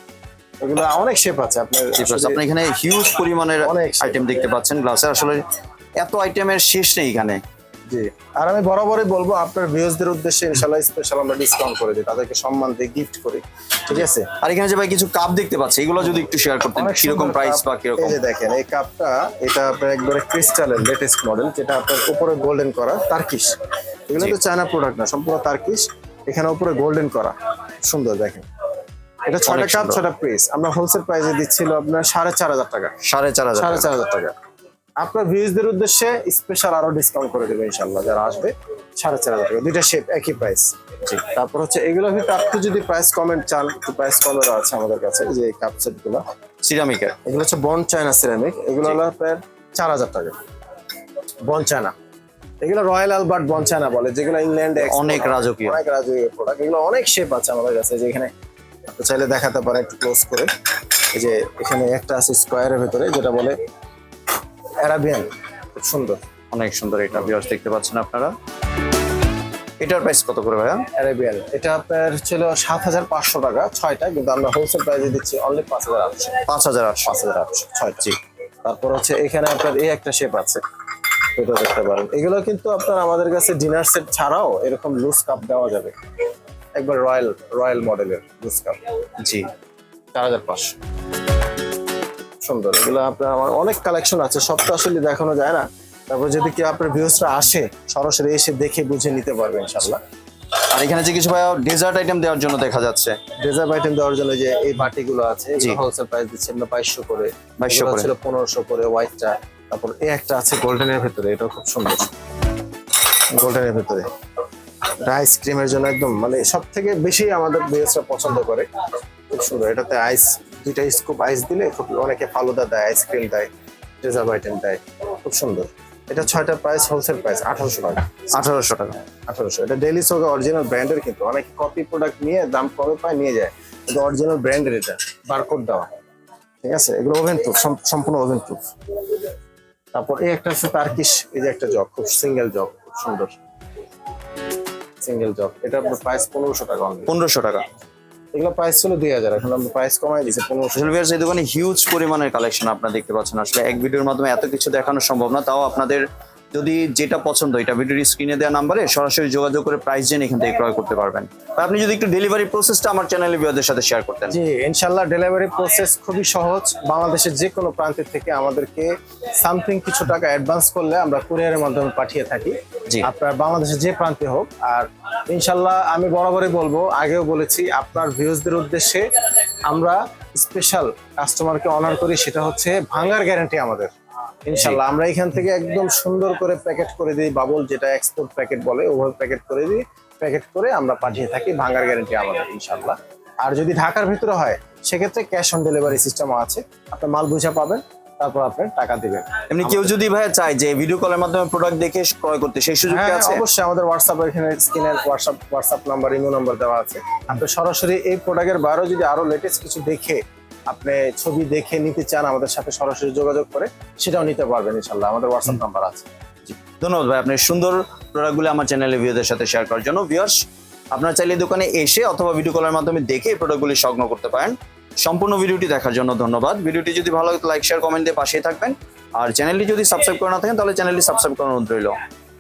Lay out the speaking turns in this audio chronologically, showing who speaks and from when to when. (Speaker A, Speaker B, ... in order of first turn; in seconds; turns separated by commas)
Speaker A: 0.6-2.4, Speaker B: 2.0-5.5, Speaker A: 3.6-4.2, Speaker B: 6.0-7.4, Speaker A: 7.9-14.3, Speaker B: 13.9-18.2, Speaker A: 16.8-23.6, Speaker A: 24.1-28.4, Speaker A: 29.3-33.0, Speaker B: 29.4-30.0, Speaker B: 33.0-33.9, Speaker A: 33.5-34.4, Speaker A: 35.0-46.2, Speaker B: 46.6-47.2, Speaker A: 47.2-50.4, Speaker A: 51.5-51.9, Speaker A: 52.6-58.3, Speaker B: 54.8-55.8, Speaker A: 58.9-60.5, Speaker A: 61.1-63.6, Speaker A: 64.8-66.2, Speaker B: 66.5-68.3, Speaker B: 69.8-70.8, Speaker A: 71.0-76.4, Speaker B: 76.5-77.1, Speaker A: 77.1-80.6, Speaker A: 81.3-85.9, Speaker A: 86.8-88.8, Speaker B: 89.2-89.5, Speaker A: 90.1-90.7, Speaker A: 92.4-100.0, Speaker B: 100.6-103.2, Speaker A: 103.4-112.1, Speaker B: 107.6-108.1, Speaker A: 113.0-114.1, Speaker A: 115.0-118.7, Speaker A: 119.3-123.5, Speaker A: 124.0-128.2, Speaker B: 128.3-129.0, Speaker A: 129.2-135.9, Speaker A: 136.6-139.3, Speaker A: 139.9-143.3, Speaker A: 145.0-147.1, Speaker B: 147.1-147.6, Speaker A: 148.3-150.9, Speaker B: 150.8-164.4, Speaker A: 164.3-179.1, Speaker A: 179.7-183.9, Speaker A: 184.5-199.9, Speaker B: 199.5-203.4, Speaker A: 202.9-216.1, Speaker B: 216.5-220.4, Speaker B: 220.9-231.9